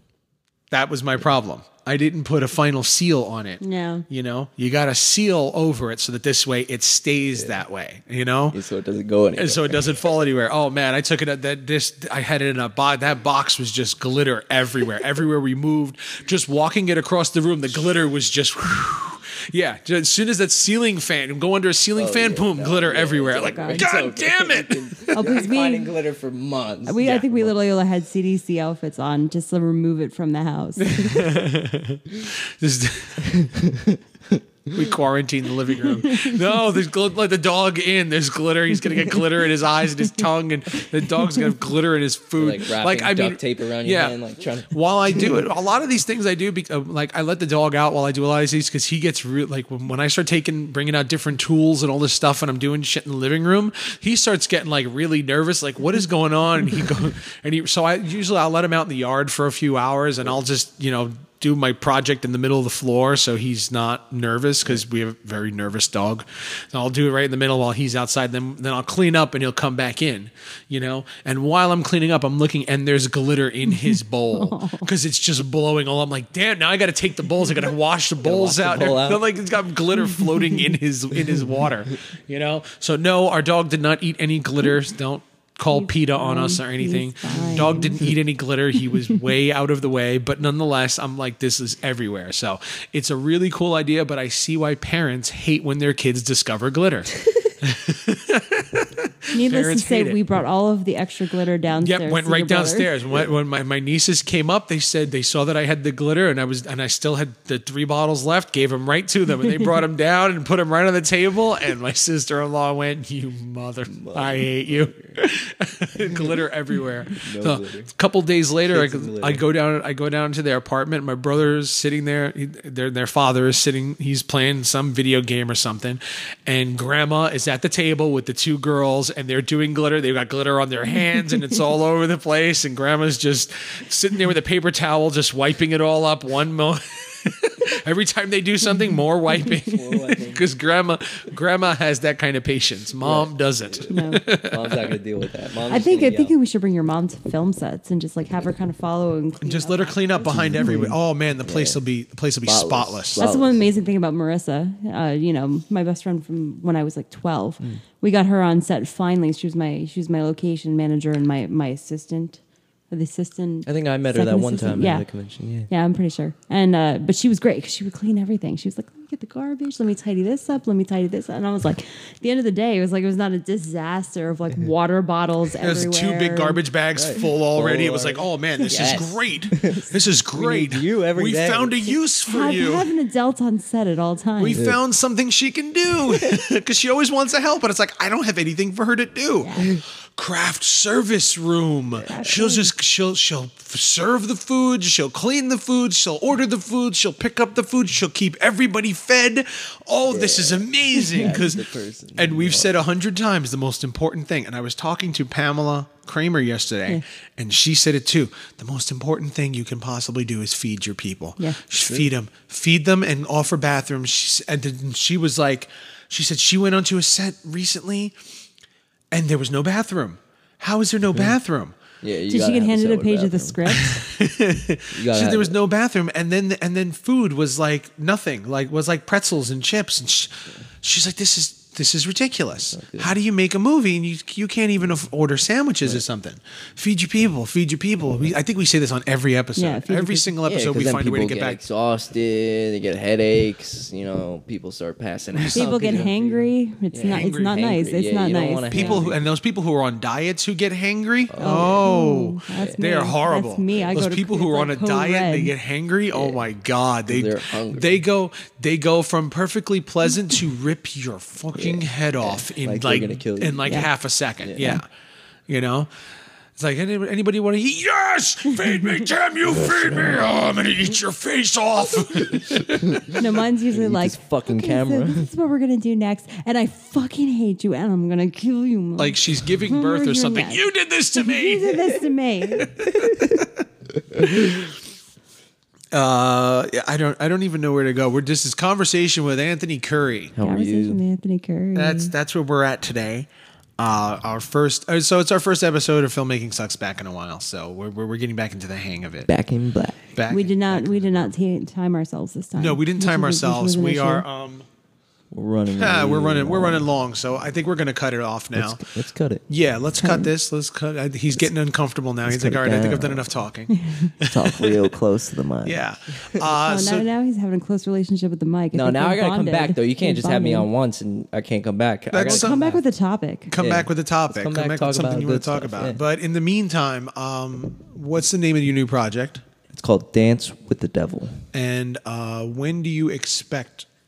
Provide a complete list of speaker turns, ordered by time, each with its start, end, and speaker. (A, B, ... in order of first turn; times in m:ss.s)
0:00.7-0:08.6 A
0:03.6-0:04.0 B
0:08.5-0:10.0 C
0:09.4-0:25.4 A
0:22.0-0:27.5 C
0:23.4-0:23.9 B
0:25.1-0:25.9 B
0:26.9-0:31.2 B
0:27.0-0:27.3 A
0:30.8-0:33.4 A
0:33.3-0:34.4 C
0:34.7-0:44.2 A
0:36.1-0:36.3 B
0:42.4-0:45.3 C
0:44.7-1:40.2 A
1:14.3-1:14.9 B
1:18.2-1:19.2 C
1:25.7-1:28.1 B
1:27.3-1:27.8 C
1:39.3-1:42.9 B
1:41.8-2:24.9 A
1:53.9-1:55.2 C
1:57.2-1:57.9 C
1:58.7-1:59.4 C
2:19.4-2:20.4 C
2:23.0-2:23.9 C
2:23.9-2:24.2 B
2:24.4-2:26.4 C
2:25.7-2:30.8 B
2:29.4-2:33.2 A
2:30.3-2:31.8 C
2:32.4-2:33.7 C
2:33.2-2:45.0 B
2:43.7-2:45.7 C
2:45.7-2:56.6 B
2:55.6-3:02.9 A
2:56.9-2:59.8 C
3:00.3-3:02.0 C
3:02.3-3:04.6 B
3:04.4-3:21.6 A
3:04.5-3:04.8 C
3:06.0-3:06.4 C
3:09.4-3:09.7 B
3:11.9-3:12.7 C
3:20.1-3:22.8 C
3:22.2-3:38.1 A
3:31.8-3:32.1 C
3:39.1-3:41.7 A
3:42.0-3:43.8 C
3:42.3-3:44.0 B
3:43.7-4:01.6 A
3:44.9-3:45.6 C
3:52.7-3:53.1 C
3:59.6-4:00.3 B
4:00.4-4:09.3 C
4:05.4-4:05.6 A
4:05.5-4:09.0 B
4:07.1-4:07.6 A
4:08.7-4:24.8 A
4:11.3-4:11.9 C
4:11.4-4:15.5 B
4:12.5-4:12.8 C
4:16.1-4:16.4 C
4:17.1-4:18.0 C
4:21.5-4:23.8 C
4:24.4-4:24.8 C
4:25.5-4:25.9 A
4:26.6-4:33.2 A
4:29.5-4:30.3 C
4:32.5-4:33.2 C
4:33.1-4:40.6 B
4:33.7-4:35.3 C
4:39.0-4:42.0 A
4:41.2-4:42.7 B
4:42.6-4:43.4 A
4:44.3-4:44.7 A
4:45.9-4:50.4 A
4:50.4-4:51.0 C
4:50.4-4:52.1 B
4:51.8-4:53.3 A
4:53.8-4:59.3 A
4:59.3-5:00.1 C
5:00.1-5:01.3 A
5:00.3-5:04.2 B
5:02.6-5:04.7 A
5:05.3-5:06.9 C
5:05.8-5:08.8 A
5:08.5-5:09.4 C
5:09.5-5:14.9 A
5:10.0-5:10.3 B
5:12.3-5:13.3 C
5:13.7-5:14.1 B
5:14.2-5:16.5 C
5:15.6-5:17.1 A
5:16.6-5:20.7 B
5:18.7-5:22.8 C
5:22.1-5:22.6 A
5:22.2-5:23.5 B
5:23.5-5:29.4 A
5:23.6-5:26.0 C
5:29.7-5:31.5 C
5:31.5-5:33.9 A